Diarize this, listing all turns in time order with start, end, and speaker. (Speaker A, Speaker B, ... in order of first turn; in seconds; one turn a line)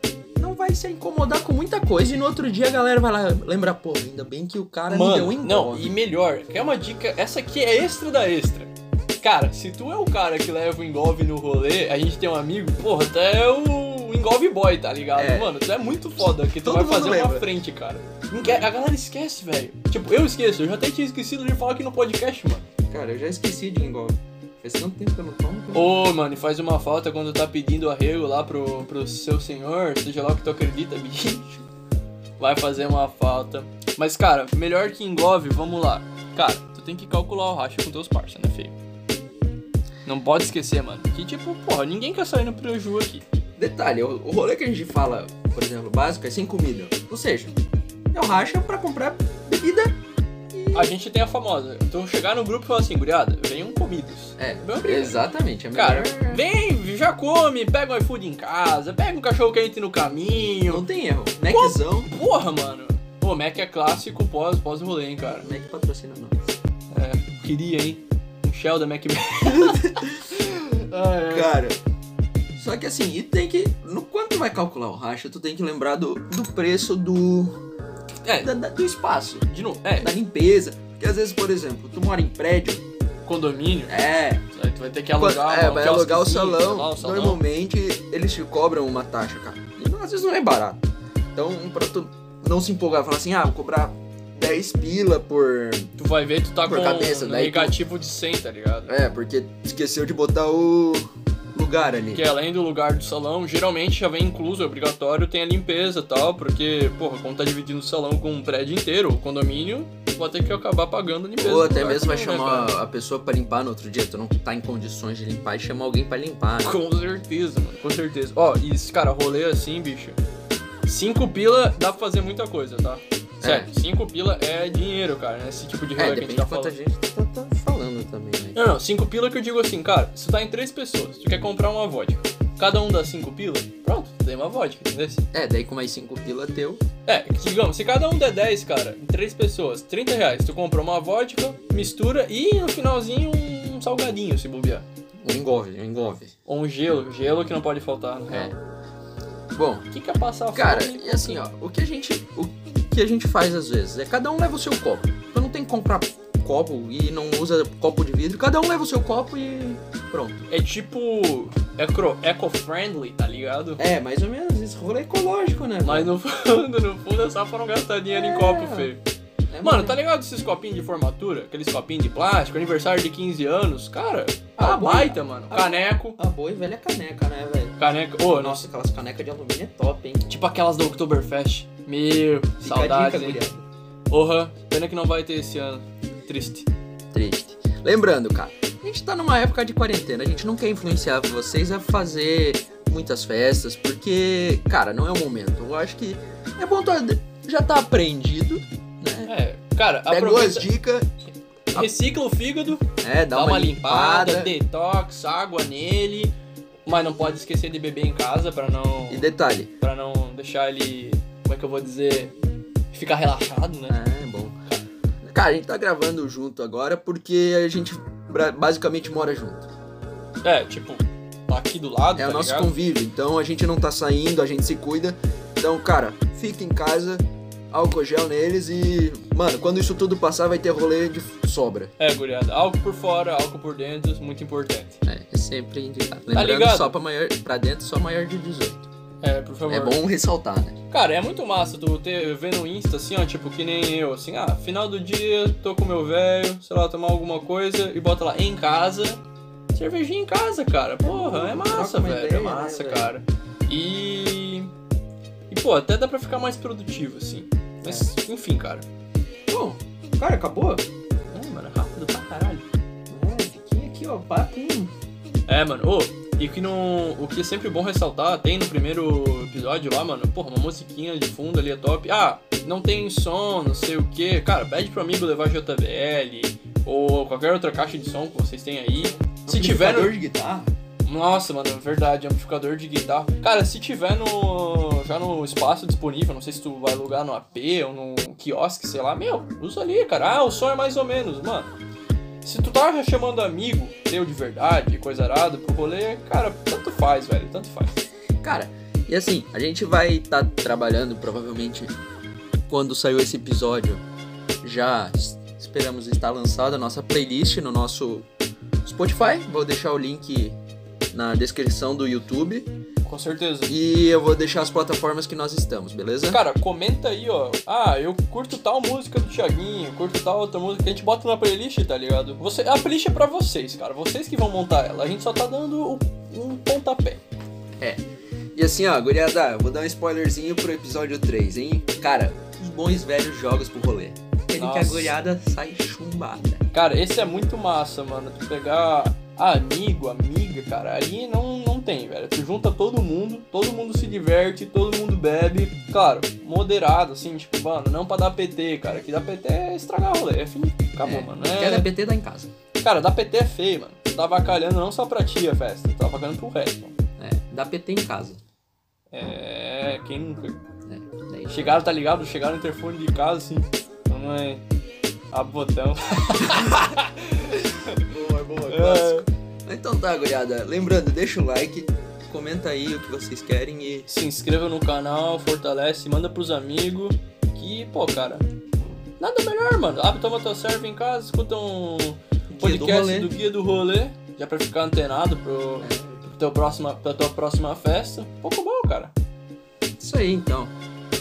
Speaker A: 0.4-5.9
Speaker B: 4.9-22.6
Speaker A: 15.1-15.6
Speaker A: 16.6-17.5
Speaker A: 22.9-25.9
Speaker B: 25.7-31.6
Speaker B: 32.4-38.8
Speaker B: 40.0-43.2
Speaker A: 43.6-47.6
Speaker A: 48.1-49.9
Speaker A: 50.5-50.9
Speaker B: 50.7-55.2
Speaker A: 54.4-56.4
Speaker B: 55.7-60.8
Speaker A: 60.6-62.1
Speaker B: 61.5-65.5
Speaker A: 65.3-66.4
Speaker B: 66.9-71.5
Speaker A: 69.4-70.4
Speaker A: 71.2-71.8
Speaker A: 72.5-77.6
Speaker B: 78.2-78.5
Speaker A: 78.4-79.5
Speaker B: 79.5-80.1
Speaker A: 80.0-82.8
Speaker B: 83.2-84.0
Speaker A: 83.9-84.4
Speaker B: 84.5-87.4
Speaker A: 85.2-95.9
Speaker B: 96.0-98.9
Speaker A: 96.7-97.8
Speaker A: 98.9-102.2
Speaker B: 102.1-112.7
Speaker A: 111.4-116.8
Speaker B: 116.6-120.2
Speaker B: 120.8-126.7
Speaker A: 123.4-123.7
Speaker A: 126.0-128.6
Speaker B: 128.5-135.2
Speaker A: 135.3-136.8
Speaker B: 137.1-144.8
Speaker A: 145.2-146.3
Speaker B: 146.4-148.6
Speaker A: 148.3-148.6
Speaker A: 149.5-149.9
Speaker B: 149.9-151.4
Speaker A: 150.5-160.4
Speaker B: 160.5-163.8
Speaker A: 163.8-166.1
Speaker B: 165.8-169.0
Speaker A: 168.1-168.9
Speaker A: 169.5-170.0
Speaker B: 169.6-176.2
Speaker A: 174.6-177.8
Speaker B: 177.8-178.6
Speaker A: 178.3-180.3
Speaker B: 180.2-183.4
Speaker A: 182.6-183.6
Speaker B: 184.1-186.7
Speaker A: 187.1-199.3
Speaker B: 199.2-200.7
Speaker A: 200.1-201.1
Speaker B: 201.7-206.3
Speaker A: 203.0-204.5
Speaker B: 206.8-212.3
Speaker A: 209.1-209.7
Speaker B: 212.9-214.0
Speaker A: 213.9-214.6
Speaker A: 215.2-219.7
Speaker B: 220.4-222.7
Speaker A: 222.2-231.9
Speaker B: 232.0-235.0
Speaker A: 235.1-238.9
Speaker B: 236.3-236.9
Speaker B: 239.2-240.0
Speaker A: 239.7-240.8
Speaker B: 240.9-249.2
Speaker B: 249.7-254.7
Speaker A: 251.0-253.1
Speaker B: 255.5-258.9
Speaker A: 259.5-260.9
Speaker B: 261.3-262.6
Speaker A: 263.1-264.9
Speaker B: 265.5-280.1
Speaker A: 279.4-280.7
Speaker B: 281.0-291.7
Speaker B: 292.4-297.9
Speaker A: 298.4-301.9
Speaker A: 302.7-304.0
Speaker A: 304.6-308.3
Speaker A: 308.8-310.6
Speaker A: 311.1-312.7
Speaker B: 313.0-313.7
Speaker A: 313.7-316.4
Speaker B: 316.3-327.2
Speaker A: 328.5-336.6
Speaker B: 334.6-335.1
Speaker B: 336.7-351.9
Speaker A: 351.0-352.5
Speaker B: 352.8-356.9
Speaker A: 357.2-358.4
Speaker B: 359.1-360.6
Speaker A: 360.9-361.8
Speaker B: 361.5-364.6
Speaker B: 365.3-368.0
Speaker A: 368.0-374.1
Speaker B: 368.7-369.3
Speaker B: 374.1-378.4
Speaker B: 379.2-389.1
Speaker A: 382.5-383.3
Speaker A: 385.8-386.2
Speaker A: 390.0-390.7